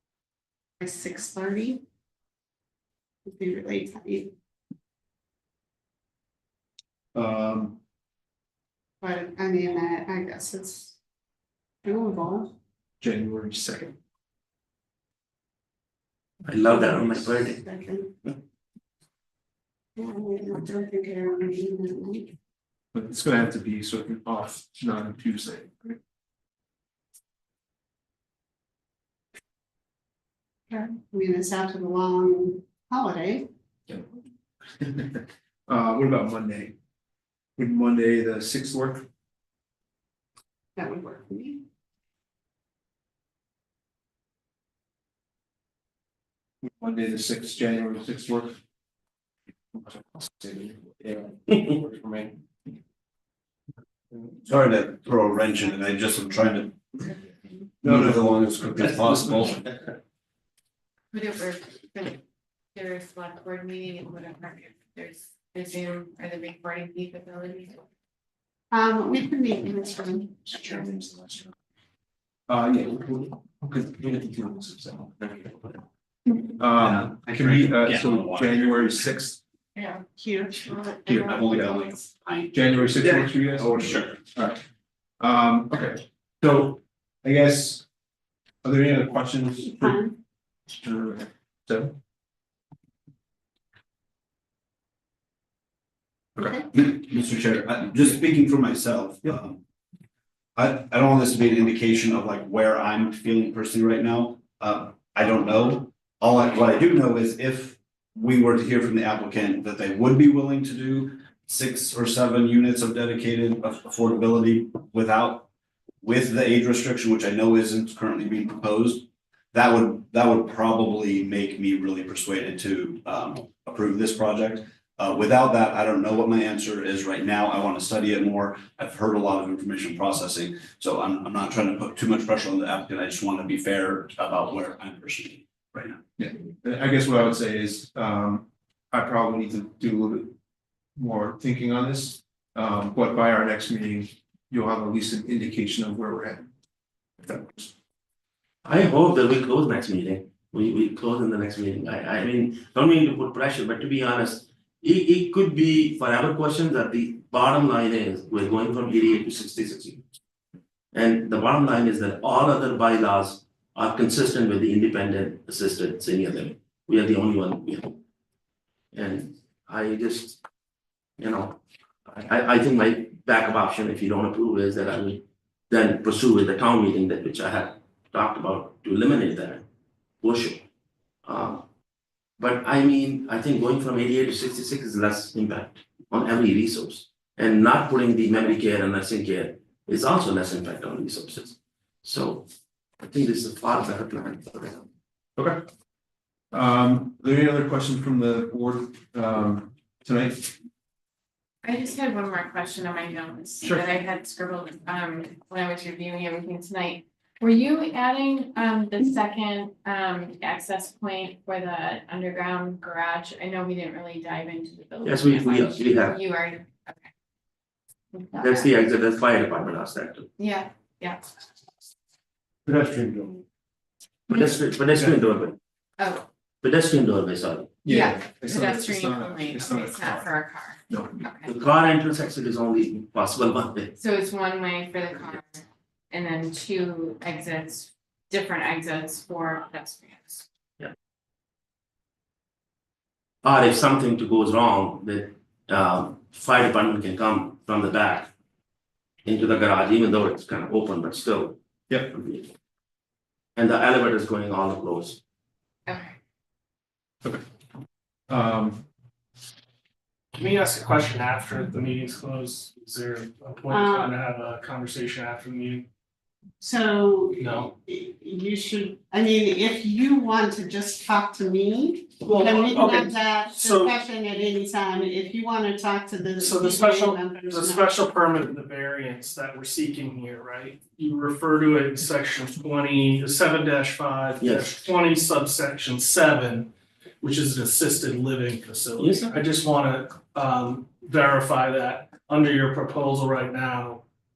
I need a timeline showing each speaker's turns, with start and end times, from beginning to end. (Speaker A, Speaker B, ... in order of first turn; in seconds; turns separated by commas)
Speaker A: 0.8-1.8, Speaker A: 3.3-4.3, Speaker B: 7.2-7.8, Speaker A: 9.0-11.0, Speaker A: 11.8-12.5, Speaker B: 13.0-13.9, Speaker C: 16.4-17.6, Speaker A: 16.7-18.1, Speaker A: 20.0-22.3, Speaker B: 22.9-26.0, Speaker A: 30.7-33.5, Speaker B: 34.8-36.8, Speaker B: 37.6-39.0, Speaker A: 40.8-41.6, Speaker B: 46.6-48.6, Speaker B: 49.8-52.4, Speaker D: 54.5-56.8, Speaker D: 57.8-59.6, Speaker B: 57.8-59.5, Speaker E: 61.1-62.2, Speaker E: 62.7-67.8, Speaker A: 68.7-70.8, Speaker B: 70.7-71.5, Speaker B: 72.5-75.7, Speaker B: 76.6-79.4, Speaker D: 76.8-79.0, Speaker E: 79.8-80.0, Speaker A: 80.2-82.0, Speaker B: 81.0-81.7, Speaker D: 81.2-84.2, Speaker B: 82.5-84.6, Speaker B: 85.2-87.8, Speaker B: 88.6-90.0, Speaker A: 89.6-90.2, Speaker B: 90.7-92.0, Speaker A: 96.4-96.7, Speaker D: 96.7-99.6, Speaker D: 100.6-115.5, Speaker D: 116.0-136.0, Speaker B: 136.2-140.3, Speaker B: 141.0-146.5, Speaker B: 147.2-147.7, Speaker C: 148.7-160.0, Speaker C: 160.9-168.0, Speaker C: 168.9-170.4, Speaker C: 171.2-179.6, Speaker C: 180.2-180.7, Speaker C: 181.2-181.7, Speaker C: 182.4-192.5, Speaker C: 193.0-194.8, Speaker B: 196.5-200.5, Speaker E: 201.6-217.1, Speaker C: 215.0-216.2, Speaker E: 218.1-218.8, Speaker C: 218.4-220.3, Speaker E: 220.4-221.3, Speaker B: 222.7-223.4, Speaker C: 224.3-225.6, Speaker E: 226.0-226.2, Speaker C: 226.6-227.8, Speaker B: 227.8-230.3, Speaker E: 227.9-231.5, Speaker B: 230.9-231.3, Speaker C: 231.5-233.9, Speaker E: 234.0-240.4, Speaker C: 243.4-248.3, Speaker C: 249.2-252.5, Speaker C: 253.6-255.2, Speaker E: 255.9-256.2, Speaker B: 258.3-258.8, Speaker F: 260.4-265.9, Speaker A: 263.7-264.1, Speaker A: 266.6-277.9, Speaker F: 267.4-267.7, Speaker F: 272.2-274.0, Speaker F: 276.4-286.7, Speaker C: 284.4-284.7, Speaker F: 287.2-294.0, Speaker C: 289.0-289.4